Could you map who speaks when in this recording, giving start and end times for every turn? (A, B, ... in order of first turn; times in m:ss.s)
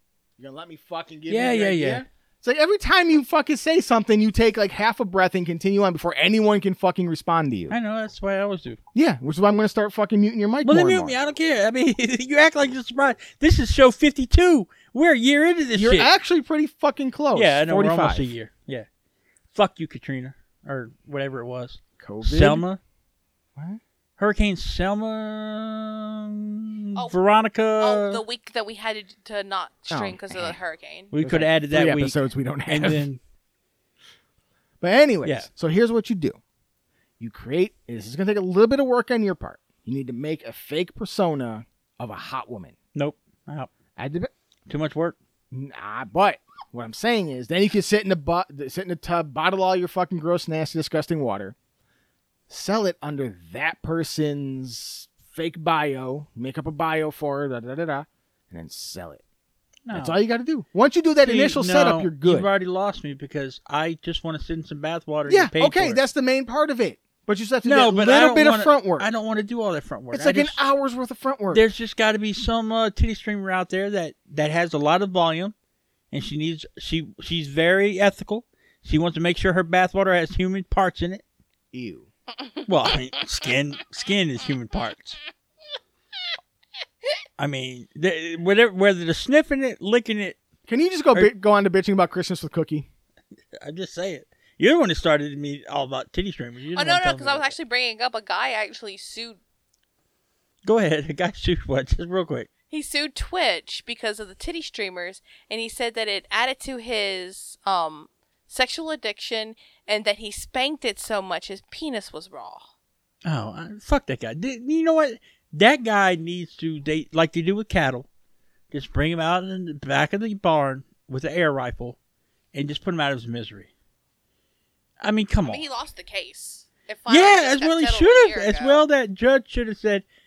0:00.4-0:07.7 A
0:01.3-0:02.0 B
0:07.7-0:08.8 B
0:08.9-0:11.1 A
0:10.6-0:16.1 B
0:15.7-0:18.3 A
0:17.3-0:18.9 B
0:19.5-0:22.8 B
0:22.0-0:22.6 A
0:24.2-0:28.2 B
0:27.8-0:31.1 C
0:29.9-0:30.6 A
0:31.1-0:33.2 B
0:31.2-0:33.1 A
0:34.8-0:36.4 A
0:37.2-0:42.7 A
0:42.9-0:43.7 B
0:44.0-0:44.3 A
0:44.7-0:45.2 B
0:45.5-0:51.6 A
0:52.5-0:59.2 A
0:59.8-1:00.2 B
0:59.9-1:02.5 A
1:01.2-1:06.0 B
1:05.3-1:09.1 A
1:07.6-1:10.6 B
1:10.1-1:11.6 A
1:11.5-1:15.5 B
1:16.1-1:21.2 B
1:21.7-1:22.1 A
1:22.6-1:25.2 B
1:27.4-1:30.4 B
1:30.7-1:32.9 A
1:33.6-1:37.5 B
1:36.7-1:39.4 C
1:40.6-1:42.5 B
1:42.7-1:52.7 C
1:53.2-1:58.1 B
1:58.7-2:02.0 B
2:02.5-2:03.7 B
2:05.0-2:05.6 B
2:05.4-2:08.9 C
2:07.1-2:10.0 B